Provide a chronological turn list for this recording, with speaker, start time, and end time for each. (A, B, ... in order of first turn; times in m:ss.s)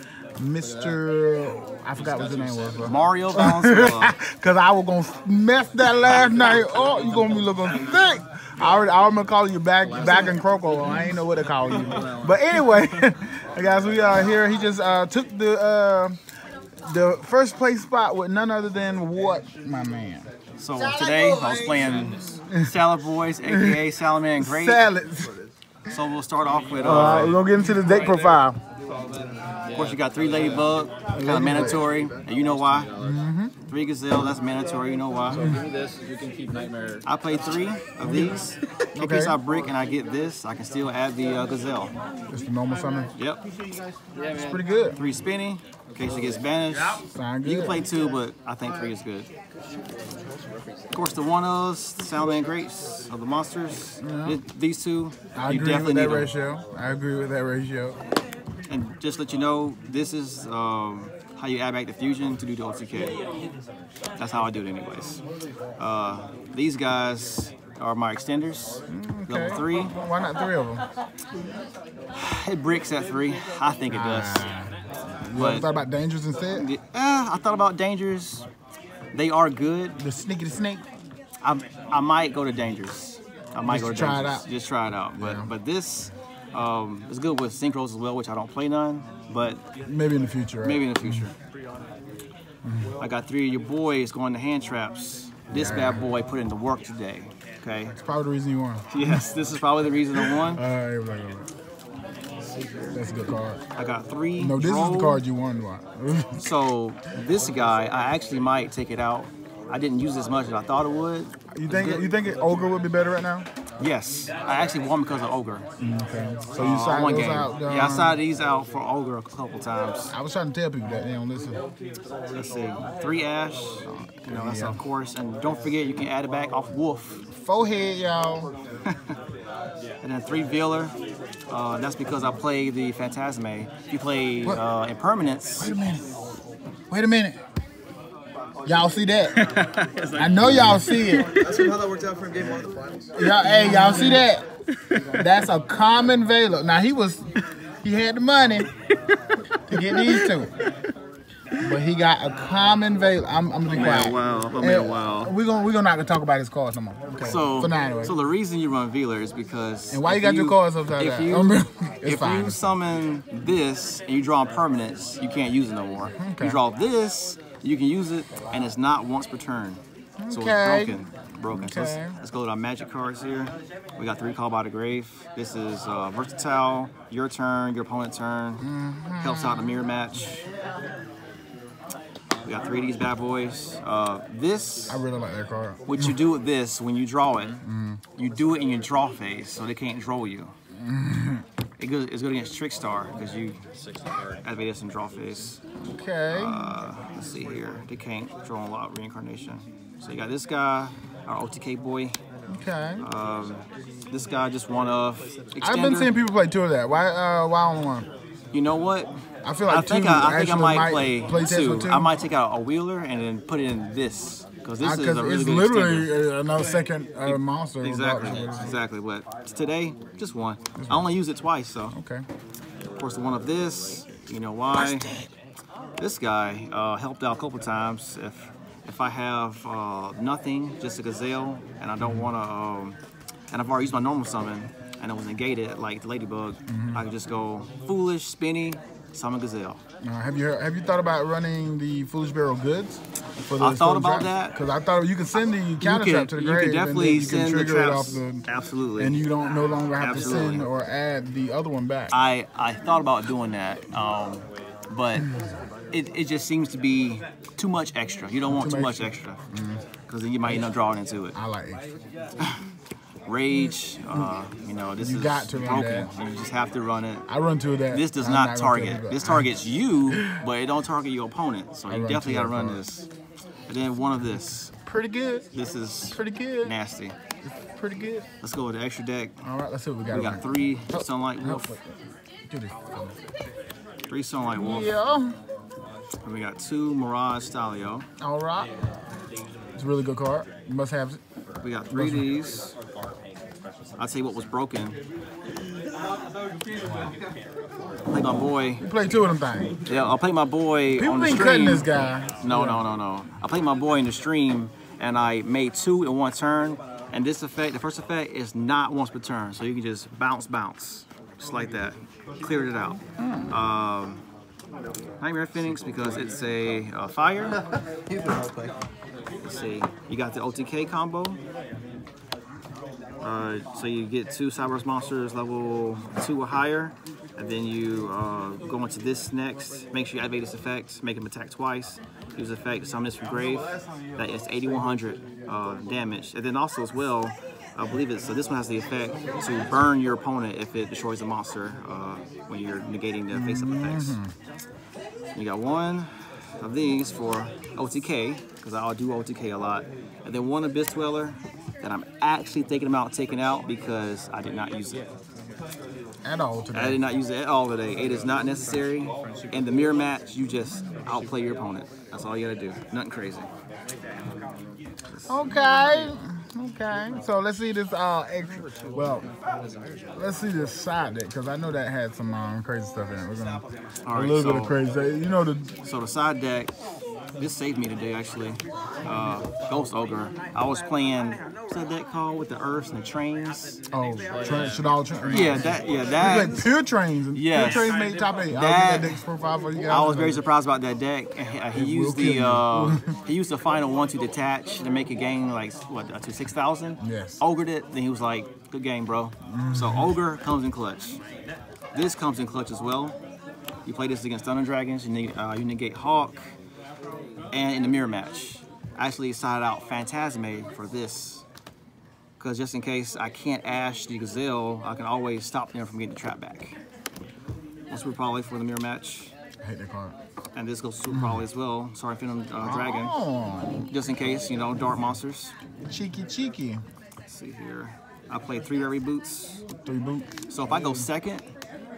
0:00.4-0:16.2 A
0:00.6-0:01.0 B
0:02.1-0:02.8 B
0:02.8-0:04.2 C
0:07.2-0:08.0 B
0:09.9-0:11.1 B
0:11.7-0:12.9 B
0:16.8-0:20.3 A
0:20.6-0:24.8 C
0:21.1-0:22.1 B
0:23.4-0:23.8 A
0:24.4-0:25.4 A
0:25.9-0:27.4 C
0:26.8-0:28.6 A
0:29.7-0:30.6 B
0:29.7-0:32.9 C
0:31.1-0:31.8 A
0:31.5-0:33.2 B
0:33.0-0:33.5 A
0:33.7-0:35.5 C
0:35.3-0:37.0 B
0:37.0-0:41.9 C
0:38.1-0:38.4 A
0:39.0-0:39.4 A
0:42.3-0:43.1 A
0:43.2-0:43.4 C
0:44.2-0:44.6 B
0:44.3-0:45.0 A
0:45.0-0:49.3 C
0:47.1-0:47.9 A
0:50.3-0:50.6 B
0:50.9-0:56.3 C
0:54.0-0:54.4 A
0:55.4-0:58.0 A
0:58.7-1:03.2 C
1:04.2-1:05.2 C
1:05.8-1:10.0 C
1:08.9-1:10.8 A
1:12.1-1:14.5 C
1:13.9-1:16.7 A
1:15.4-1:15.7 C
1:16.5-1:18.5 C
1:19.1-1:20.0 C
1:20.0-1:20.9 A
1:21.4-1:29.6 C
1:23.7-1:24.5 A
1:25.2-1:25.5 A
1:29.9-1:31.3 A
1:30.6-1:31.3 C
1:32.6-1:32.9 A
1:33.0-1:38.0 C
1:35.5-1:36.0 A
1:38.0-1:39.3 A
1:38.9-1:40.6 C
1:40.2-1:41.5 A
1:42.9-1:43.6 A
1:43.8-1:45.2 C
1:44.4-1:46.4 A
1:46.4-1:52.1 C
1:51.5-1:53.5 A
1:53.8-1:55.7 C
1:55.8-1:58.2 A
1:56.5-2:00.1 C
2:00.1-2:01.6 A
2:02.3-2:07.2 C
2:04.2-2:04.8 A
2:07.3-2:08.5 A
2:10.0-2:11.0 C
2:11.5-2:15.7 C
2:15.6-2:16.2 A
2:16.9-2:17.4 A
2:18.7-2:19.4 A
2:19.3-2:21.7 C
2:20.2-2:21.4 A
2:21.2-2:23.1 B
2:23.2-2:24.5 A
2:23.4-2:25.2 C
2:25.2-2:27.2 A
2:27.8-2:28.7 A
2:29.1-2:30.3 C
2:29.7-2:30.5 A
2:31.6-2:38.1 A
2:33.7-2:35.3 C
2:37.2-2:58.6 C
2:39.9-2:42.7 A
2:46.1-2:46.6 A
2:50.2-2:52.2 A
2:58.6-2:59.8 A
2:59.2-3:00.4 C
3:02.4-3:05.0 C
3:04.9-3:06.2 A
3:05.9-3:07.6 C
3:07.6-3:08.0 A
3:08.2-3:10.5 C
3:10.8-3:11.4 A
3:11.8-3:13.6 C
3:14.4-3:15.6 C
3:15.9-3:16.6 A
3:16.3-3:22.2 C
3:22.5-3:23.0 A
3:23.0-3:26.1 C
3:25.6-3:28.1 A
3:28.5-3:29.1 C
3:29.4-3:32.1 A
3:29.7-3:36.2 C
3:34.8-3:38.7 A
3:37.2-3:42.0 C
3:40.8-3:41.1 A
3:41.9-3:42.2 A
3:43.0-3:45.2 C
3:44.7-3:45.3 A
3:46.0-3:53.0 C
3:52.0-3:52.3 A
3:53.5-3:59.8 C
3:56.7-3:57.0 A
4:00.0-4:08.4 A
4:03.6-4:04.6 C
4:05.8-4:09.2 C
4:09.0-4:12.1 A
4:10.0-4:10.7 C
4:12.1-4:15.3 C
4:15.9-4:19.4 C
4:18.5-4:19.8 A
4:20.1-4:21.4 C
4:21.3-4:22.0 A
4:23.3-4:27.3 C
4:25.0-4:26.1 A
4:27.3-4:29.5 A
4:27.9-4:33.1 C
4:30.1-4:30.4 A
4:31.9-4:32.8 A
4:33.7-4:34.7 C
4:34.8-4:35.5 A
4:35.5-4:37.2 C
4:36.1-4:36.7 A
4:37.4-4:38.3 A
4:38.4-4:39.4 C
4:39.4-4:42.0 A
4:40.1-4:41.8 C
4:42.5-4:43.2 A
4:44.1-4:44.9 C
4:44.6-4:45.4 A
4:46.2-4:48.1 C
4:48.2-4:48.7 A
4:49.8-4:51.2 A
4:51.6-4:52.7 C
4:51.9-4:52.3 A
4:54.0-4:55.0 C
4:58.1-4:58.8 C
4:58.8-4:59.8 A
4:59.9-5:14.2 C
5:01.0-5:02.8 A
5:13.2-5:13.5 A
5:15.2-5:17.6 C
5:18.1-5:18.7 B
5:19.4-5:21.4 C
5:23.2-5:44.2 C
5:43.3-5:44.3 A
5:45.3-5:55.1 C
5:56.2-5:57.0 A
5:56.7-6:03.5 C
6:05.3-6:09.3 A
6:10.2-6:15.7 A
6:14.1-6:14.8 C
6:15.8-6:16.7 C
6:17.4-6:23.8 C
6:23.9-6:30.4 A
6:24.3-6:24.9 B
6:25.3-6:26.7 C
6:27.3-6:27.9 C
6:28.5-6:29.2 C
6:29.9-6:41.2 C
6:31.7-6:33.2 A
6:37.0-6:37.4 A
6:39.5-6:40.1 A
6:41.9-6:43.2 C
6:43.9-6:46.4 C
6:47.5-6:51.4 C
6:52.4-6:56.8 C
6:57.9-6:59.3 C
6:59.6-7:00.2 A
7:00.5-7:03.2 C
7:01.1-7:01.4 A
7:02.6-7:03.9 A
7:03.9-7:05.5 C
7:05.9-7:06.8 A
7:07.3-7:09.6 C
7:09.8-7:11.1 A
7:10.5-7:11.5 C